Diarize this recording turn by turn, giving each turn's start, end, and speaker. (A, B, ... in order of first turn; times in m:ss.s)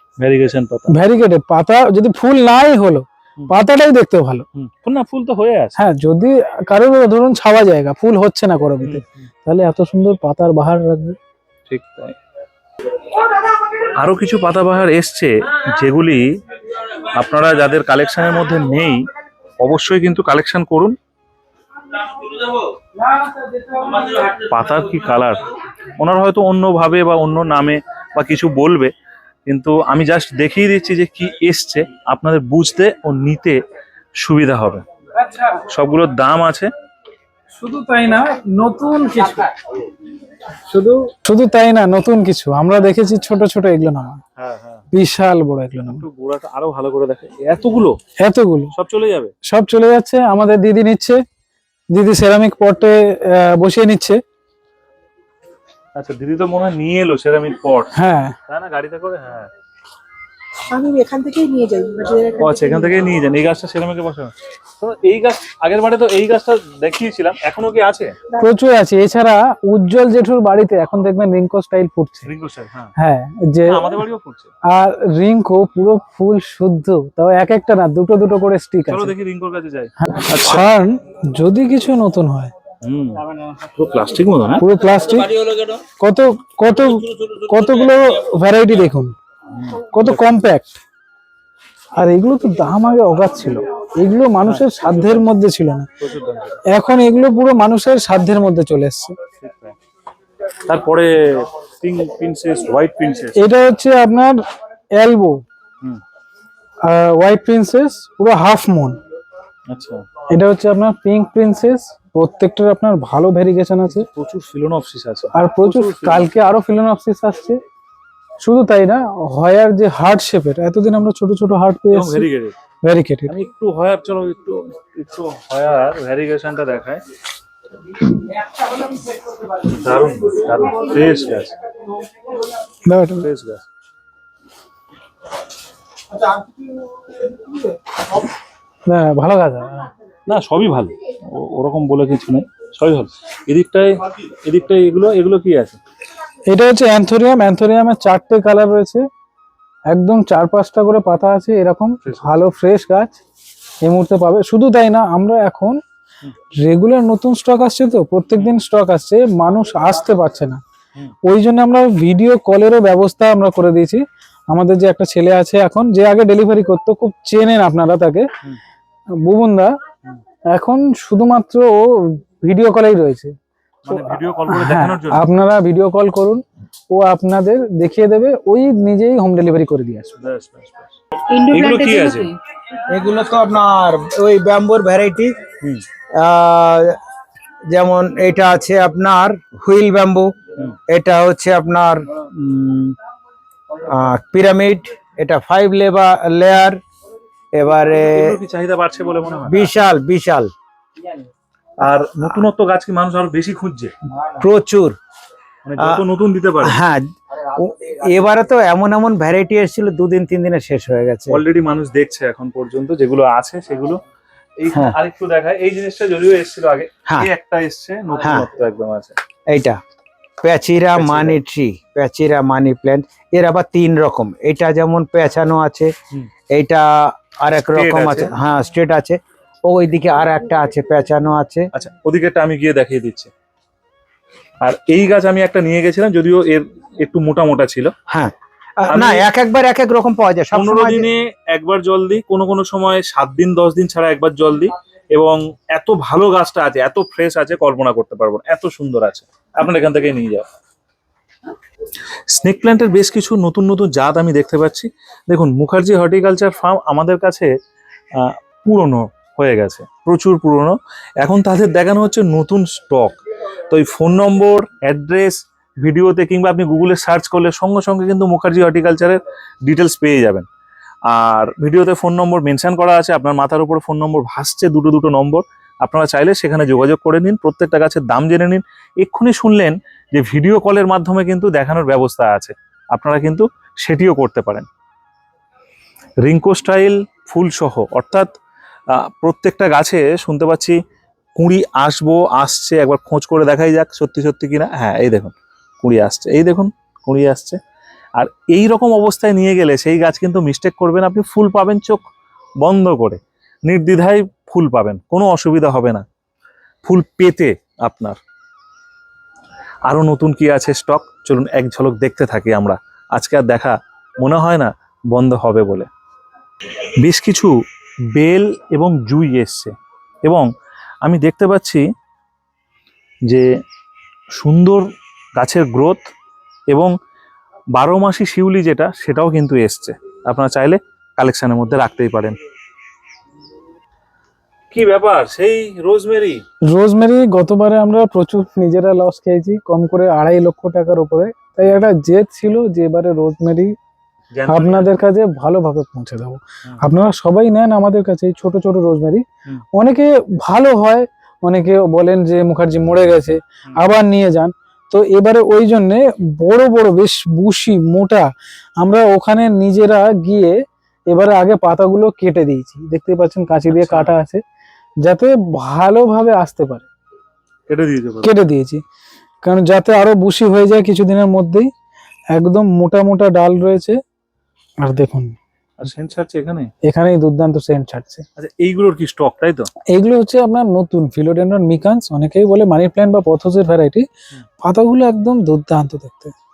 0:00.2-0:01.0 A
0:00.9-0:04.4 B
0:04.6-0:05.8 A
0:05.8-0:11.2 B
0:08.8-0:09.2 A
0:11.7-0:12.2 A
0:13.9-0:16.3 A
0:17.1-0:19.0 A
0:19.6-0:21.0 A
0:24.2-0:28.9 A
0:29.5-0:33.6 A
0:34.2-0:34.8 A
0:35.7-0:36.7 A
0:37.6-0:39.6 B
0:40.7-0:44.2 B
0:44.4-0:44.8 A
0:44.9-0:46.0 B
0:45.9-0:48.0 A
0:48.2-0:48.7 B
0:48.7-0:49.3 A
0:49.4-0:51.2 B
0:51.9-0:54.2 B
0:56.0-0:57.9 A
0:57.9-0:58.3 B
0:58.5-0:59.5 A
1:00.7-1:03.1 C
1:02.4-1:08.1 A
1:08.4-1:12.3 B
1:12.2-1:12.9 A
1:13.0-1:14.0 B
1:13.7-1:14.5 A
1:14.7-1:19.1 B
1:18.9-1:20.7 A
1:20.0-1:22.5 B
1:22.8-1:24.6 A
1:24.6-1:25.4 B
1:26.0-1:29.1 B
1:29.5-1:30.2 A
1:29.9-1:30.8 B
1:32.0-1:35.9 B
1:34.4-1:35.2 A
1:36.0-1:36.6 A
1:36.7-1:39.2 B
1:39.4-1:39.8 A
1:40.6-1:43.4 A
1:43.4-1:44.4 B
1:45.0-1:45.4 B
1:46.9-1:49.0 B
1:49.7-1:50.0 A
1:50.3-1:54.1 B
1:54.0-1:56.3 A
1:55.3-1:57.6 B
1:58.4-2:02.3 B
2:01.9-2:02.6 A
2:02.8-2:03.3 B
2:03.3-2:07.0 A
2:09.6-2:11.5 A
2:12.9-2:13.2 B
2:13.2-2:13.6 A
2:18.9-2:19.9 B
2:20.3-2:25.8 A
2:26.5-2:29.0 B
2:29.9-2:33.2 B
2:33.8-2:35.8 B
2:36.6-2:40.6 B
2:41.2-2:48.3 B
2:49.2-2:49.7 B
2:50.5-2:53.3 B
2:53.8-2:55.2 A
2:53.9-3:00.1 B
3:00.2-3:00.9 A
3:01.3-3:02.4 C
3:01.5-3:02.3 A
3:02.9-3:07.0 D
3:07.7-3:10.3 D
3:10.9-3:13.0 D
3:13.8-3:16.8 D
3:17.5-3:18.3 D
3:18.0-3:19.7 A
3:19.5-3:20.5 D
3:21.8-3:23.9 A
3:24.4-3:25.0 D
3:25.6-3:26.8 A
3:26.6-3:31.4 D
3:31.3-3:34.0 A
3:34.6-3:39.2 A
3:38.2-3:38.4 D
3:39.5-3:39.8 D
3:40.4-3:45.9 D
3:41.0-3:41.4 A
3:46.5-3:51.7 D
3:47.7-3:48.3 A
3:51.7-3:53.3 A
3:54.6-3:57.9 A
3:58.1-4:01.0 D
3:58.9-3:59.2 A
4:00.5-4:10.5 A
4:12.3-4:17.5 A
4:18.1-4:23.2 A
4:23.7-4:30.5 A
4:31.1-4:44.7 A
4:46.2-4:48.3 A
4:48.9-4:50.8 A
4:51.4-4:57.6 A
4:58.2-5:02.0 A
5:02.6-5:06.0 A
5:06.8-5:08.2 A
5:09.9-5:15.9 A
5:17.0-5:17.6 A
5:18.1-5:19.7 A
5:21.0-5:21.8 A
5:24.4-5:24.8 A
5:25.4-5:26.0 A
5:27.8-5:32.4 A
5:34.7-5:36.4 A
5:36.7-5:43.7 B
5:44.3-5:44.9 A
5:44.5-5:49.2 B
5:49.7-5:58.3 B
5:58.8-6:00.5 B
6:01.1-6:04.4 B
6:03.7-6:04.1 A
6:05.0-6:06.8 B
6:07.7-6:08.3 A
6:08.2-6:08.8 B
6:09.4-6:11.7 B
6:12.3-6:14.0 B
6:14.8-6:15.4 B
6:15.8-6:16.7 A
6:16.8-6:18.2 B
6:18.4-6:19.7 A
6:19.9-6:24.0 B
6:24.6-6:26.3 B